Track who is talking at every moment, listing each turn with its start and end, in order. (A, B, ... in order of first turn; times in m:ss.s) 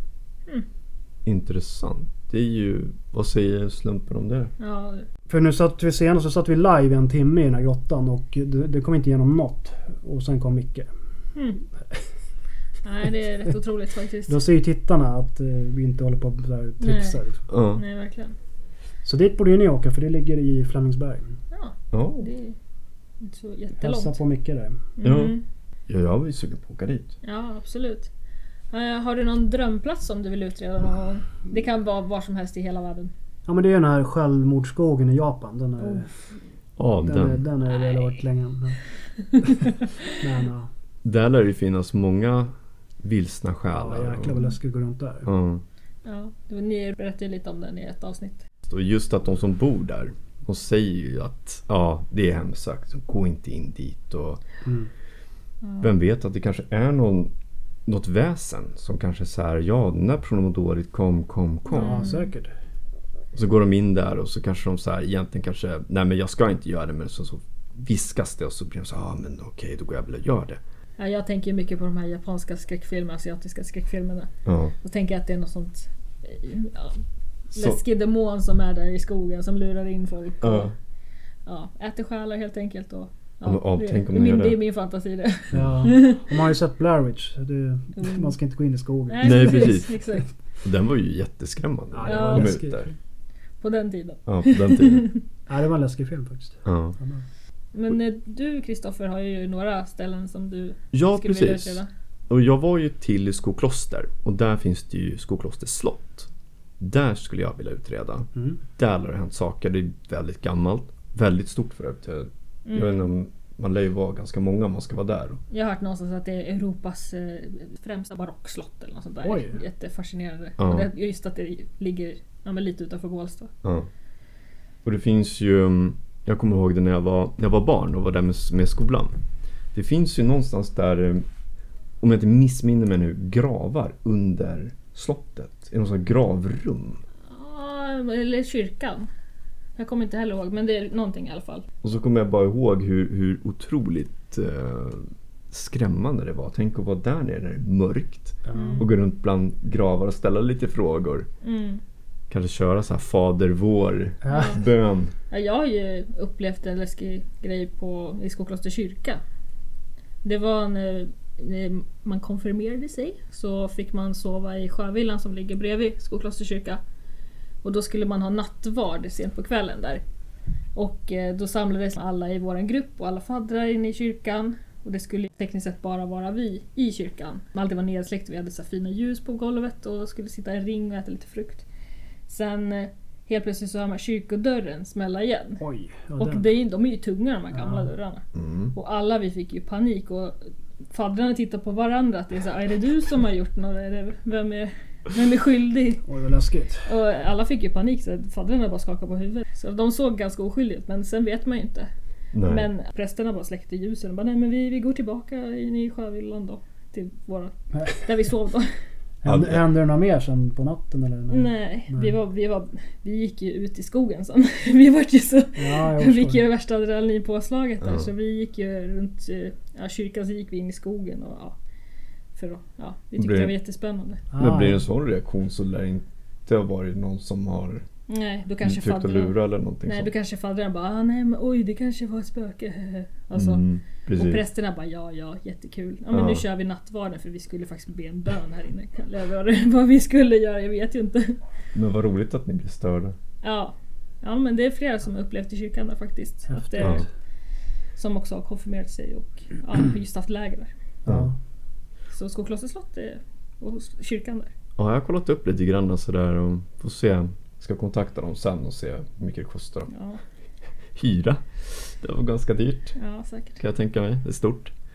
0:01.2-0:04.5 A
0:04.6-0:05.0 B
0:05.3-0:10.9 C
0:11.4-0:11.6 B
0:12.8-0:14.4 B
0:14.3-0:17.4 C
0:16.8-0:17.2 B
0:17.5-0:17.8 A
0:17.8-0:18.4 B
0:19.0-0:21.4 C
0:21.5-0:22.6 B
0:21.9-0:22.3 A
0:23.2-0:24.2 B
0:23.8-0:24.8 C
0:25.0-0:25.4 B
0:25.0-0:25.4 A
0:25.9-0:27.1 A
0:27.2-0:28.1 B
0:28.7-0:33.1 B
0:33.5-0:36.1 C
0:35.8-0:36.1 B
0:36.8-0:37.4 A
0:37.0-0:38.8 C
0:37.7-0:38.2 B
0:39.2-0:40.1 B
0:40.1-0:40.7 C
0:41.0-0:42.5 A
0:43.0-0:44.4 A
0:43.7-0:45.3 C
0:45.2-0:45.6 A
0:46.0-0:48.4 B
0:48.7-0:54.4 A
0:54.6-0:54.9 C
0:55.6-0:55.9 B
0:55.8-0:57.3 A
0:57.9-1:02.0 A
1:01.7-1:02.3 B
1:01.7-1:02.5 C
1:03.4-1:10.6 A
1:11.0-1:14.3 B
1:14.4-1:14.7 A
1:14.8-1:20.7 B
1:17.5-1:17.8 A
1:20.4-1:20.7 A
1:21.5-1:26.3 B
1:23.4-1:24.6 A
1:25.5-1:25.9 A
1:25.5-1:29.8 C
1:28.0-1:28.3 B
1:29.1-1:30.3 B
1:29.2-1:29.9 A
1:30.6-1:32.9 A
1:31.9-1:32.9 C
1:32.1-1:32.6 B
1:33.6-1:35.2 B
1:34.3-1:35.1 A
1:35.5-1:37.2 C
1:36.6-1:37.0 A
1:37.7-1:41.9 B
1:40.9-1:46.3 A
1:46.8-1:55.4 A
1:52.7-1:53.1 B
1:55.5-2:03.5 B
1:59.2-1:59.6 C
2:00.6-2:00.9 A
2:04.8-2:09.2 A
2:09.7-2:11.2 A
2:12.0-2:17.0 A
2:17.3-2:19.1 B
2:19.8-2:21.7 B
2:21.8-2:31.3 A
2:28.4-2:28.8 C
2:28.5-2:28.9 B
2:31.4-2:31.8 B
2:32.3-2:35.1 A
2:34.2-2:34.6 C
2:34.3-2:34.6 B
2:35.3-2:39.2 B
2:40.2-2:46.8 B
2:47.6-2:50.0 B
2:50.8-3:01.6 B
3:02.3-3:05.6 B
3:05.6-3:06.5 C
3:06.2-3:10.4 B
3:07.5-3:07.9 C
3:08.4-3:08.7 A
3:10.9-3:16.0 B
3:16.1-3:16.9 C
3:16.8-3:21.9 B
3:22.3-3:22.7 A
3:22.4-3:28.8 B
3:29.2-3:32.1 C
3:29.3-3:29.6 A
3:31.3-3:41.6 B
3:35.6-3:36.4 C
3:37.8-3:38.1 A
3:42.4-3:44.2 B
3:43.2-3:43.5 A
3:44.3-3:44.8 C
3:44.4-3:47.8 A
3:48.1-3:53.6 B
3:48.6-3:50.1 A
3:53.3-3:54.4 A
3:54.1-4:01.4 B
3:56.1-3:56.4 A
4:01.7-4:03.1 A
4:03.4-4:07.1 B
4:06.5-4:07.0 C
4:06.8-4:07.1 A
4:08.0-4:10.7 B
4:11.1-4:11.3 C
4:12.1-4:14.5 B
4:14.8-4:19.9 A
4:19.9-4:20.2 B
4:21.0-4:23.0 A
4:23.0-4:23.6 B
4:23.6-4:24.7 A